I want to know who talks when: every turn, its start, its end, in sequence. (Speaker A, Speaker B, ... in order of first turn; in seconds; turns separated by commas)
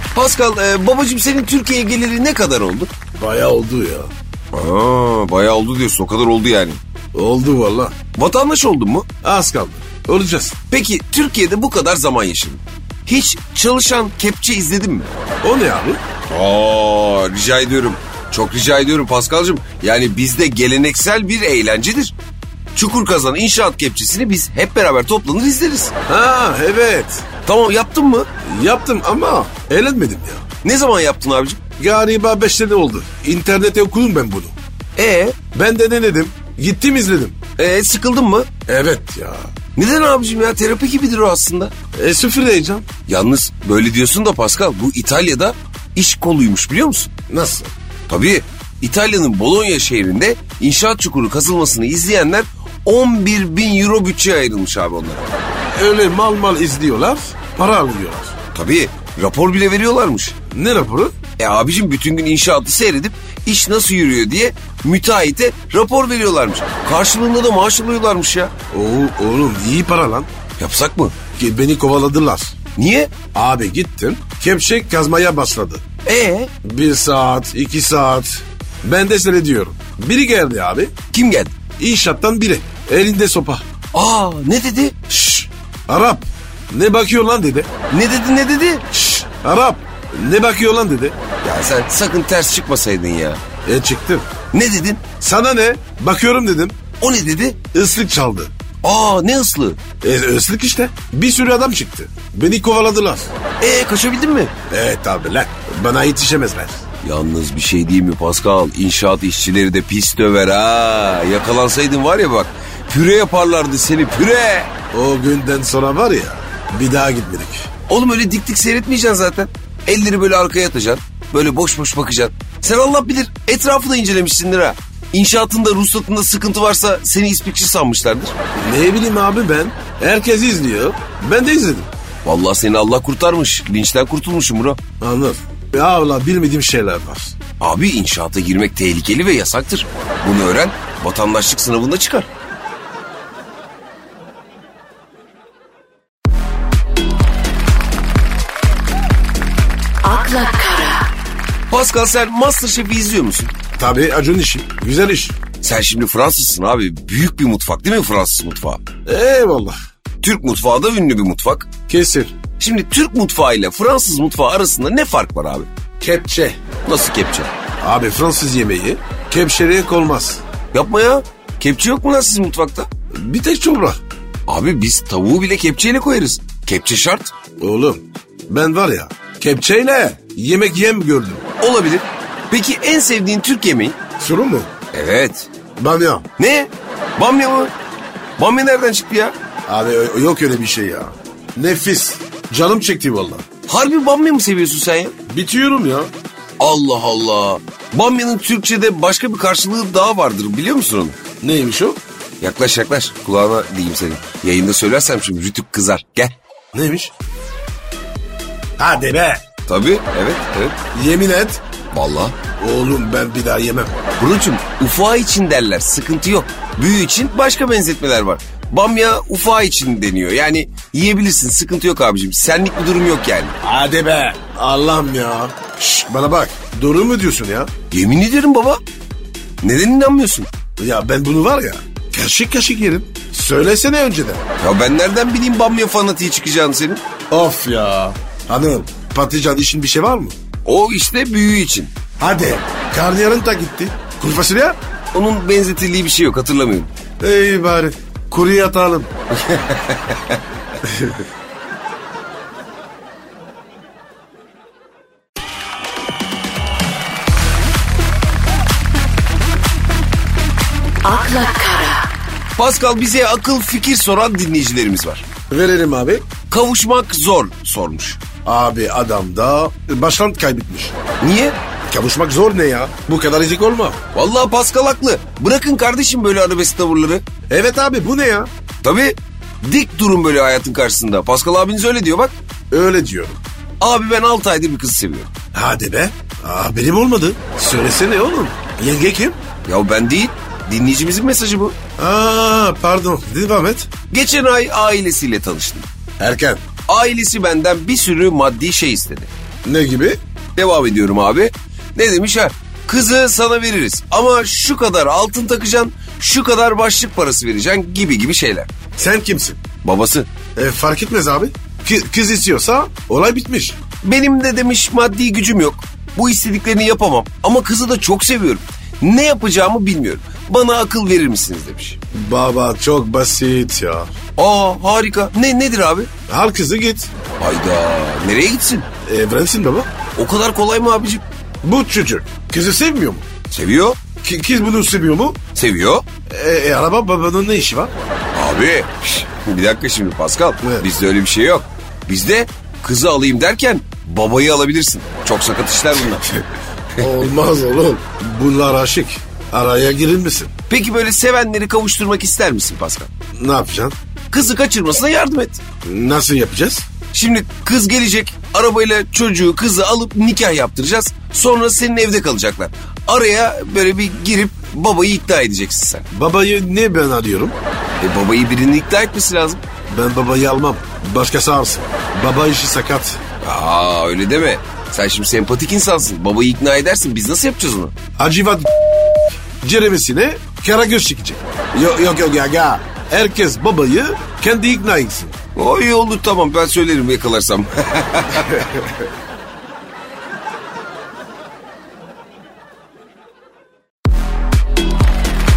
Speaker A: 0.1-2.9, Speaker B: 3.2-4.1, Speaker A: 4.5-6.8, Speaker B: 7.1-7.9, Speaker A: 8.1-9.1, Speaker B: 9.2-10.6, Speaker A: 10.7-15.1, Speaker B: 15.4-16.0, Speaker A: 16.3-22.1, Speaker A: 22.7-25.9, Speaker B: 26.1-27.2, Speaker A: 27.4-28.3, Speaker B: 28.4-30.4, Speaker A: 30.6-31.6, Speaker B: 31.8-34.5, Speaker A: 35.0-35.4, Speaker B: 35.5-37.4, Speaker A: 37.6-38.5, Speaker B: 38.7-39.5, Speaker A: 39.8-41.7, Speaker B: 41.9-42.9, Speaker A: 43.1-47.1, Speaker B: 47.3-47.7, Speaker A: 48.1-55.3, Speaker B: 55.7-58.3, Speaker A: 58.5-60.4, Speaker B: 60.5-61.1, Speaker A: 61.4-68.5, Speaker B: 68.7-70.3, Speaker A: 70.6-71.2, Speaker B: 71.3-72.5, Speaker A: 72.8-73.1, Speaker B: 73.3-75.8, Speaker A: 76.0-76.5, Speaker B: 76.6-80.9, Speaker A: 81.1-81.6, Speaker B: 81.8-83.6, Speaker A: 83.9-85.0, Speaker B: 85.1-87.7, Speaker A: 87.9-88.8, Speaker B: 88.9-91.2, Speaker A: 91.4-93.4, Speaker B: 93.7-94.3, Speaker A: 94.5-95.0, Speaker B: 95.2-96.8, Speaker A: 97.0-97.6, Speaker B: 97.7-98.5, Speaker A: 98.8-99.8, Speaker B: 100.0-103.3, Speaker A: 103.6-104.5, Speaker B: 104.7-106.8, Speaker A: 107.0-114.7, Speaker B: 114.9-117.7, Speaker A: 117.9-128.3, Speaker B: 128.6-131.9, Speaker A: 132.2-134.8, Speaker B: 135.0-137.3, Speaker A: 137.6-142.3, Speaker C: 150.1-151.0, Speaker A: 151.7-153.5, Speaker B: 153.8-155.4, Speaker A: 155.6-158.8, Speaker B: 159.1-159.8, Speaker A: 160.2-161.7, Speaker B: 161.9-162.4, Speaker A: 162.6-165.7, Speaker B: 166.0-166.6, Speaker A: 166.8-167.5, Speaker B: 167.8-170.4, Speaker A: 170.7-172.9, Speaker B: 173.1-174.0, Speaker A: 174.5-177.3, Speaker B: 177.6-181.4, Speaker A: 181.6-184.0, Speaker B: 184.2-184.7, Speaker A: 184.9-185.5, Speaker B: 185.8-186.2, Speaker A: 186.4-187.7, Speaker A: 188.4-189.3, Speaker B: 189.7-193.4, Speaker A: 193.7-195.1, Speaker B: 195.3-196.1, Speaker A: 196.6-201.2, Speaker B: 201.4-202.0, Speaker A: 202.4-206.3, Speaker B: 206.7-207.1, Speaker B: 208.8-209.4, Speaker A: 209.7-210.8, Speaker B: 210.9-211.6, Speaker A: 211.9-212.4, Speaker B: 212.6-214.0, Speaker A: 214.2-223.5, Speaker B: 223.6-227.7, Speaker A: 227.9-228.8, Speaker A: 229.6-230.5, Speaker B: 230.8-234.4, Speaker A: 234.6-237.0, Speaker B: 237.3-240.3, Speaker A: 240.6-241.9, Speaker B: 242.2-244.8, Speaker A: 245.1-246.9, Speaker B: 247.2-249.1, Speaker A: 249.3-250.4, Speaker B: 250.8-251.2, Speaker C: 261.1-262.0, Speaker A: 262.6-265.2, Speaker B: 265.5-266.2, Speaker A: 266.5-268.2, Speaker B: 268.4-270.9, Speaker A: 271.2-271.6, Speaker B: 271.9-274.0, Speaker A: 274.1-277.2, Speaker B: 277.5-278.5, Speaker A: 278.8-282.3, Speaker B: 282.7-283.4, Speaker A: 283.8-285.3, Speaker B: 285.5-289.4, Speaker A: 289.6-291.8, Speaker B: 292.0-293.9, Speaker A: 294.1-295.9, Speaker B: 296.2-296.6, Speaker A: 296.9-299.3, Speaker B: 299.6-300.2, Speaker A: 300.6-308.7, Speaker B: 309.0-309.6, Speaker A: 309.8-310.3, Speaker B: 310.5-313.8, Speaker A: 314.0-322.0, Speaker B: 322.1-324.1, Speaker A: 324.4-326.1, Speaker B: 326.3-327.1, Speaker A: 327.4-328.9, Speaker B: 329.1-329.9, Speaker A: 330.1-331.2, Speaker B: 331.6-333.3, Speaker A: 333.5-334.0, Speaker B: 334.2-335.4, Speaker A: 335.6-336.0, Speaker B: 336.3-337.9, Speaker A: 338.3-346.3, Speaker B: 347.0-350.5, Speaker A: 350.7-353.1, Speaker B: 353.4-353.9, Speaker A: 354.3-355.6, Speaker B: 355.8-356.9, Speaker A: 357.1-366.0, Speaker B: 366.1-367.6, Speaker A: 368.0-369.6, Speaker B: 369.9-373.2, Speaker A: 373.4-377.9, Speaker B: 378.2-385.4, Speaker A: 385.6-388.8